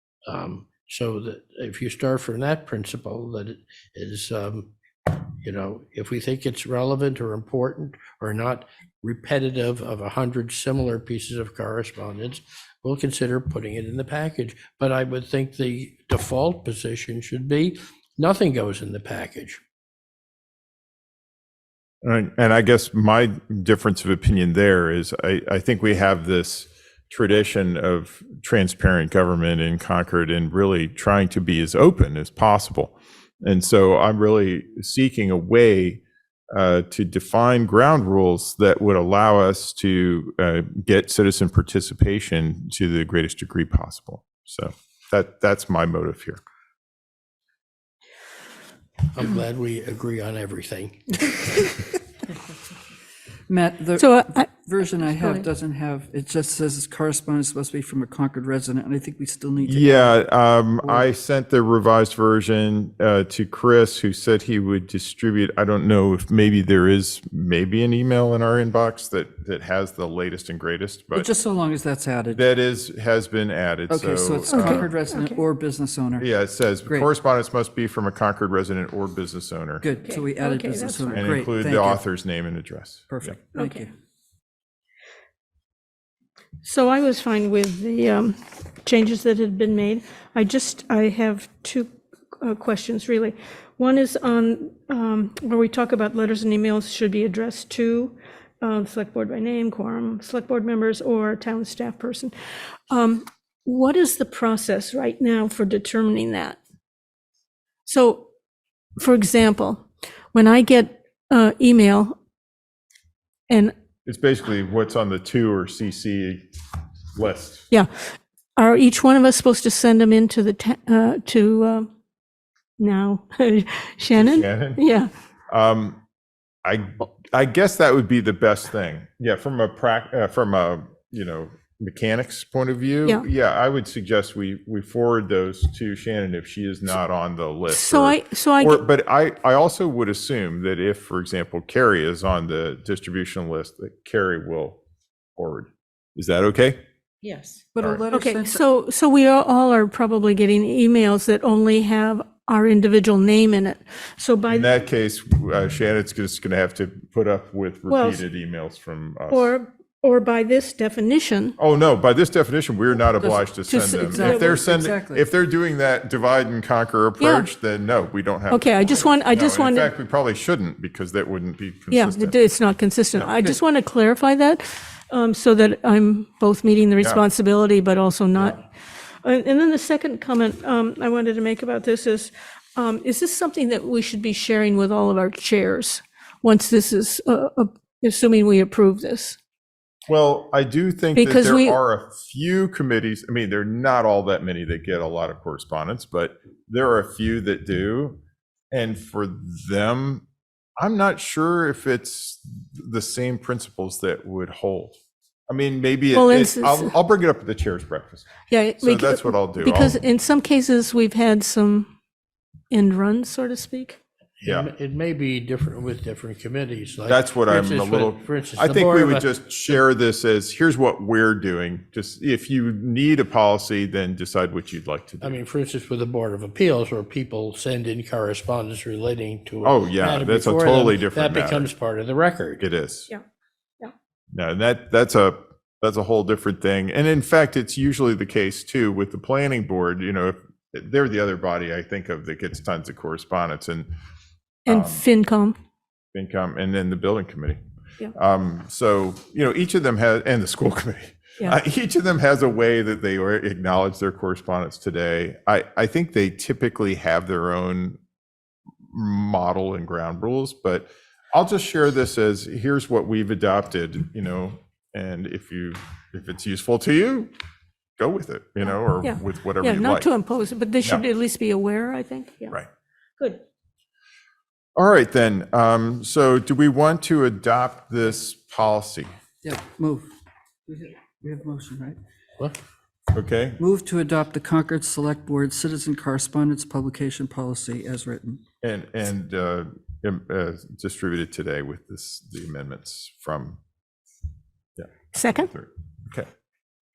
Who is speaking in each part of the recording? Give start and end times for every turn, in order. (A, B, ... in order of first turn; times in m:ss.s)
0:00.3-0:19.6 A
0:22.0-0:46.4 B
0:49.1-0:51.6 A
0:53.5-1:00.2 C
0:54.0-0:54.4 D
0:55.0-0:55.4 D
0:59.6-1:11.3 B
1:11.1-1:12.4 C
1:12.3-1:14.9 B
1:13.9-1:16.3 C
1:14.5-1:15.4 D
1:16.2-1:19.8 B
1:19.8-1:22.0 C
1:20.0-1:21.3 D
1:21.1-1:23.3 B
1:23.1-1:23.9 C
1:23.5-1:23.8 D
1:26.6-1:42.3 D
1:42.9-1:46.6 D
1:47.8-1:48.3 D
1:49.0-1:52.1 D
1:53.5-1:53.7 D
1:54.0-1:56.4 B
1:57.2-1:57.7 B
1:58.6-2:01.9 D
2:02.8-2:05.1 D
2:04.1-2:04.8 B
2:05.5-2:06.0 B
2:06.6-2:24.8 B
2:17.7-2:18.8 D
2:25.4-2:26.8 B
2:27.3-2:28.6 C
2:28.1-2:34.8 D
2:34.5-2:39.5 B
2:37.9-2:38.2 D
2:39.3-2:41.6 D
2:41.6-2:52.4 B
2:43.2-2:45.2 C
2:43.7-2:44.6 D
2:47.2-2:47.5 D
2:48.5-2:49.9 D
2:51.9-2:58.6 D
2:53.2-2:53.4 B
2:59.2-3:09.4 D
3:10.1-3:18.2 B
3:11.2-3:11.8 D
3:18.7-3:20.2 B
3:20.8-3:25.0 B
3:25.5-3:28.3 B
3:26.1-3:26.9 D
3:28.5-3:31.9 D
3:28.8-3:30.0 B
3:32.7-3:34.0 D
3:34.4-3:34.7 B
3:34.4-3:39.3 A
3:37.1-3:45.4 B
3:45.2-3:52.6 A
3:49.6-3:51.7 B
3:52.6-3:53.1 B
3:54.3-4:03.9 B
4:04.7-4:05.0 B
4:04.7-4:05.6 D
4:06.1-4:07.6 B
4:08.1-4:18.0 B
4:18.9-4:27.3 B
4:28.0-4:30.1 B
4:29.0-4:32.6 D
4:34.8-4:39.1 B
4:39.4-4:40.1 C
4:40.7-4:42.0 C
4:43.1-4:43.6 B
4:43.6-4:48.4 C
4:48.6-4:53.6 B
4:54.8-4:56.3 B
4:55.1-4:55.5 D